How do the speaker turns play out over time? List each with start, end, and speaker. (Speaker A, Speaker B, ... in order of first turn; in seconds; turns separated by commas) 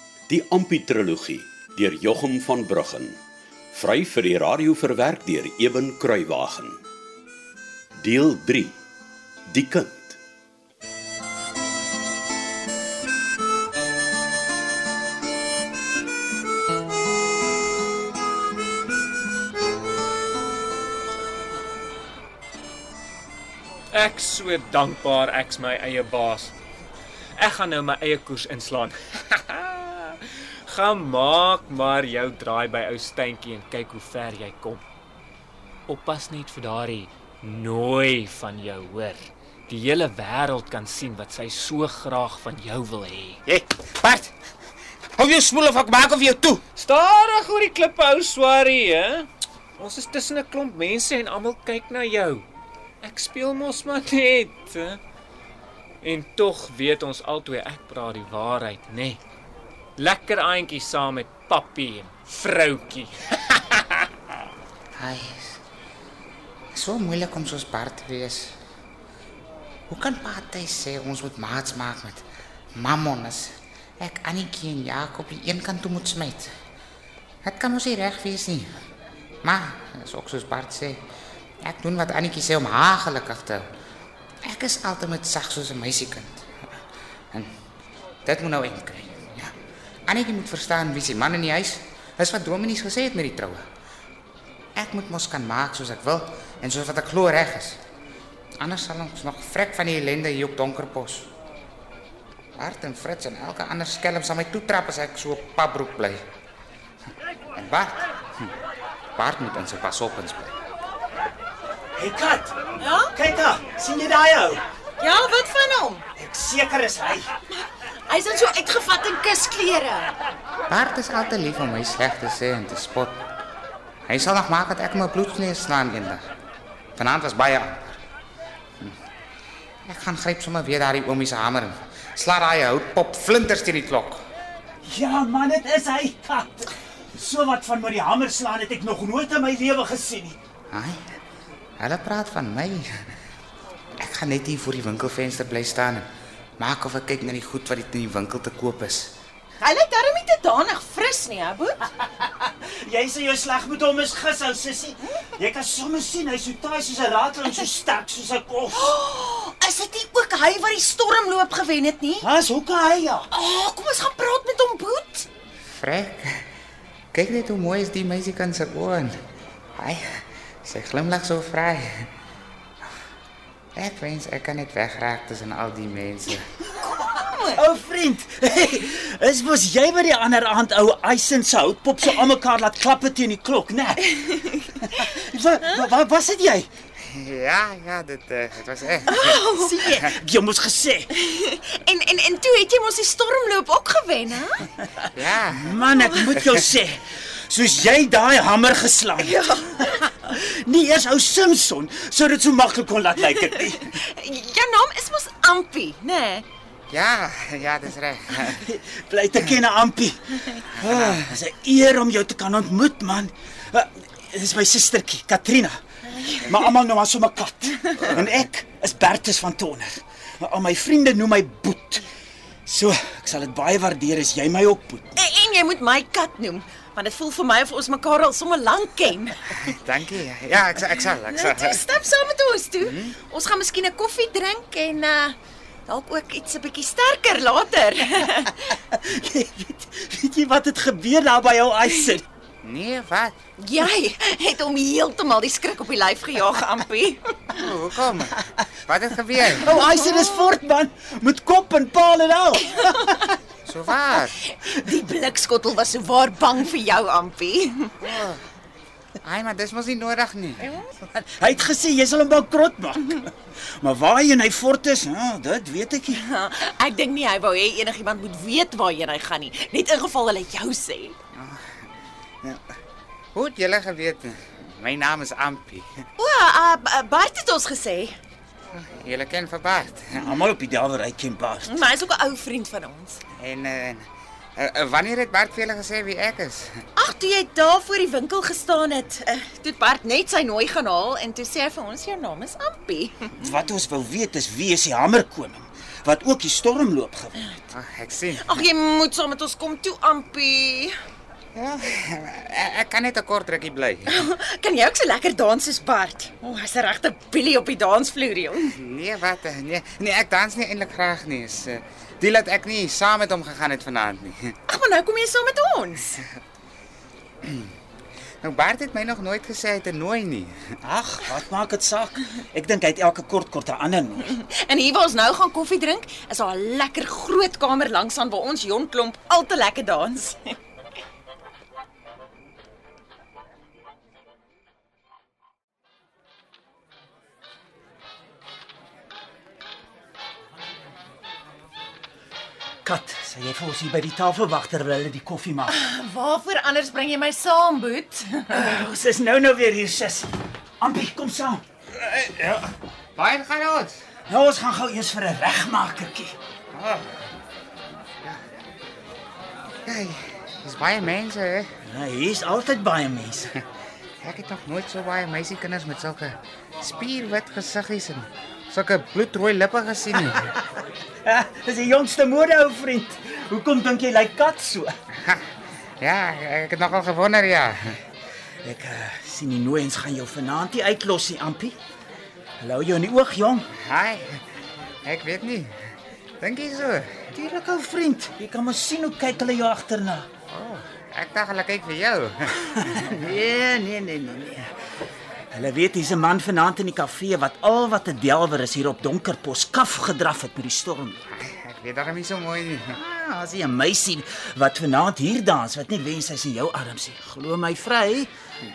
Speaker A: 0.3-3.1, Speaker A: 3.7-6.8, Speaker A: 8.0-8.7, Speaker A: 9.5-10.2, Speaker B: 23.9-26.5, Speaker B: 27.4-34.8, Speaker B: 35.9-43.4, Speaker C: 43.5-44.3, Speaker C: 45.2-46.6, Speaker B: 46.8-52.4, Speaker B: 53.0-55.0, Speaker B: 56.0-59.2, Speaker B: 60.0-63.8, Speaker C: 65.0-65.6, Speaker C: 66.7-68.5, Speaker C: 69.9-72.2, Speaker C: 72.8-76.5, Speaker C: 77.4-78.7, Speaker C: 79.4-81.0, Speaker C: 81.6-83.6, Speaker C: 84.5-86.5, Speaker C: 88.2-89.5, Speaker C: 90.1-93.6, Speaker C: 94.8-97.8, Speaker C: 98.6-101.3, Speaker C: 102.6-106.2, Speaker C: 107.5-108.0, Speaker C: 109.2-110.5, Speaker D: 112.0-112.6, Speaker E: 112.8-113.1, Speaker D: 113.1-114.6, Speaker E: 115.0-116.0, Speaker D: 116.2-117.3, Speaker E: 118.1-120.2, Speaker C: 120.7-123.2, Speaker C: 124.1-126.2, Speaker C: 127.0-128.0, Speaker C: 129.9-134.2, Speaker D: 134.8-140.4, Speaker C: 140.7-141.0, Speaker C: 141.8-143.0, Speaker C: 144.0-146.0, Speaker C: 146.6-149.1, Speaker E: 149.6-151.8, Speaker D: 152.2-158.9, Speaker E: 158.7-162.3, Speaker D: 162.2-163.2, Speaker E: 163.3-165.3, Speaker C: 165.8-166.4, Speaker C: 167.1-169.1, Speaker C: 169.8-172.1, Speaker C: 173.8-176.4, Speaker D: 176.8-186.7, Speaker E: 177.1-177.6, Speaker C: 187.1-189.3, Speaker E: 189.1-189.7, Speaker D: 189.3-191.1, Speaker E: 191.1-194.7, Speaker D: 195.0-203.9, Speaker C: 195.1-195.8, Speaker E: 199.2-200.1, Speaker E: 203.6-206.4, Speaker C: 206.9-208.7, Speaker D: 208.5-215.8, Speaker C: 210.8-211.3, Speaker E: 216.1-216.5, Speaker D: 216.4-222.1, Speaker D: 222.7-225.1, Speaker E: 225.1-229.6, Speaker C: 229.6-231.8, Speaker E: 231.3-235.3, Speaker C: 232.8-233.2, Speaker E: 235.9-238.7, Speaker D: 238.7-242.2, Speaker C: 242.6-243.3, Speaker E: 243.6-247.4, Speaker C: 247.5-248.3, Speaker C: 248.9-249.7, Speaker D: 249.5-253.4, Speaker E: 252.8-253.2, Speaker C: 253.6-254.3, Speaker E: 254.5-258.0, Speaker C: 258.0-258.4, Speaker C: 259.2-260.6, Speaker E: 260.6-260.9, Speaker D: 261.1-266.2, Speaker E: 266.1-271.1, Speaker C: 271.4-271.6, Speaker C: 273.3-275.9, Speaker E: 276.2-278.2, Speaker C: 278.7-280.2, Speaker D: 280.1-281.8, Speaker E: 281.6-283.2, Speaker C: 283.4-284.0, Speaker C: 284.6-286.7, Speaker E: 286.9-293.3, Speaker D: 293.4-297.5, Speaker C: 297.7-298.6, Speaker E: 298.4-300.9, Speaker C: 301.6-304.2, Speaker E: 304.1-308.7, Speaker C: 308.8-314.5, Speaker E: 314.7-316.2, Speaker C: 318.4-320.5, Speaker D: 320.8-324.4, Speaker E: 324.2-330.6, Speaker D: 342.8-345.7, Speaker E: 345.7-348.6, Speaker D: 348.5-351.6, Speaker C: 352.0-353.9, Speaker D: 354.3-356.4, Speaker C: 356.7-357.1, Speaker C: 359.9-361.7, Speaker D: 361.9-363.6, Speaker C: 364.2-370.5, Speaker D: 370.5-374.9, Speaker C: 376.0-378.0, Speaker D: 378.6-381.8, Speaker D: 382.6-383.7, Speaker C: 383.8-384.4, Speaker C: 385.0-385.7, Speaker C: 386.4-387.2, Speaker D: 387.3-390.3, Speaker C: 390.5-393.0, Speaker D: 392.9-394.7, Speaker D: 395.5-401.2, Speaker C: 401.4-403.0, Speaker D: 402.9-408.3